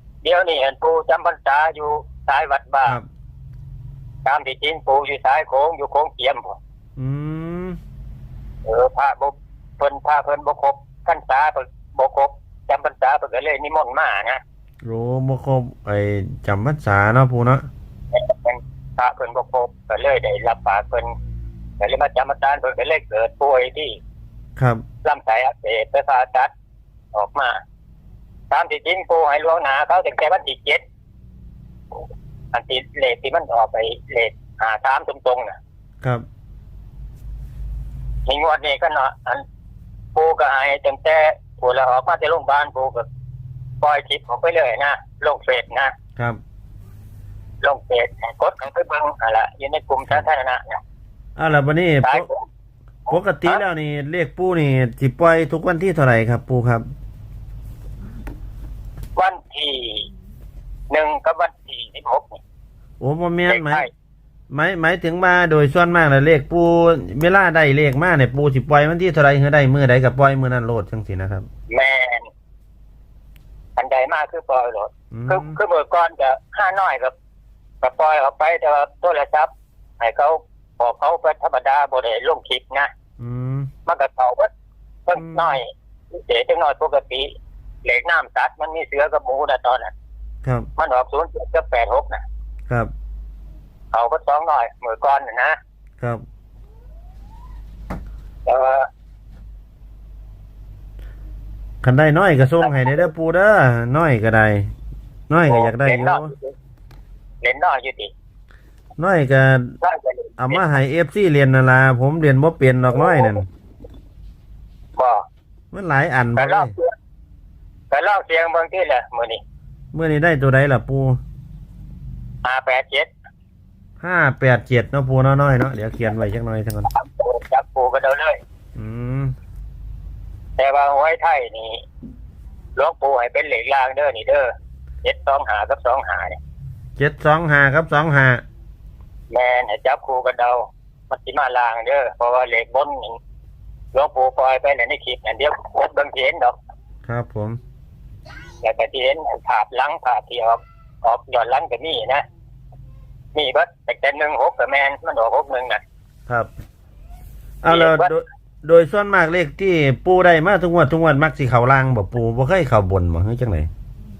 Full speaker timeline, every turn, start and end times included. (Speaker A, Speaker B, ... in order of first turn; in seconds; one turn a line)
Speaker A: 0.2-3.0
Speaker A: 4.2-6.6
Speaker B: 7.0-7.8
Speaker A: 8.7-14.4
Speaker B: 14.8-17.7
Speaker A: 18.1-21.1
Speaker A: 21.8-24.0
Speaker B: 24.6-24.8
Speaker A: 25.0-26.5
Speaker A: 27.1-27.6
Speaker A: 28.5-30.8
Speaker A: 32.5-35.6
Speaker A: 38.3-39.4
Speaker A: 40.1-43.1
Speaker A: 43.8-45.9
Speaker A: 47.6-50.8
Speaker B: 51.4-52.3
Speaker A: 52.0-52.5
Speaker A: 53.1-53.6
Speaker B: 53.1-56.9
Speaker A: 59.2-60.1
Speaker A: 60.9-62.4
Speaker B: 63.0-63.9
Speaker A: 63.5-63.9
Speaker B: 64.5-71.5
Speaker A: 71.7-72.3
Speaker A: 73.8-77.1
Speaker B: 75.1-75.6
Speaker A: 77.8-82.9
Speaker B: 83.2-83.7
Speaker A: 83.9-84.5
Speaker A: 85.1-87.3
Speaker B: 85.2-85.6
Speaker A: 87.8-89.9
Speaker A: 90.8-92.2
Speaker A: 93.9-95.6
Speaker A: 98.5-98.9
Speaker B: 101.8-104.7
Speaker B: 105.3-106.3
Speaker A: 105.5-106.5
Speaker A: 107.4-108.1
Speaker B: 109.0-109.8
Speaker A: 109.8-110.6
Speaker B: 110.4-113.5
Speaker A: 113.0-113.3
Speaker A: 115.0-115.2
Speaker B: 115.7-116.7
Speaker A: 116.4-116.9
Speaker A: 117.9-119.4
Speaker B: 119.9-121.2
Speaker A: 122.4-123.1
Speaker B: 124.0-126.9
Speaker A: 126.9-128.4
Speaker B: 128.8-129.3
Speaker A: 130.6-131.8
Speaker A: 132.8-134.5
Speaker A: 135.0-136.4
Speaker B: 137.0-138.4
Speaker A: 139.3-143.2
Speaker A: 143.9-146.6
Speaker B: 147.1-147.6
Speaker A: 148.6-152.2
Speaker A: 153.3-155.8
Speaker B: 157.6-163.7
Speaker A: 157.7-158.1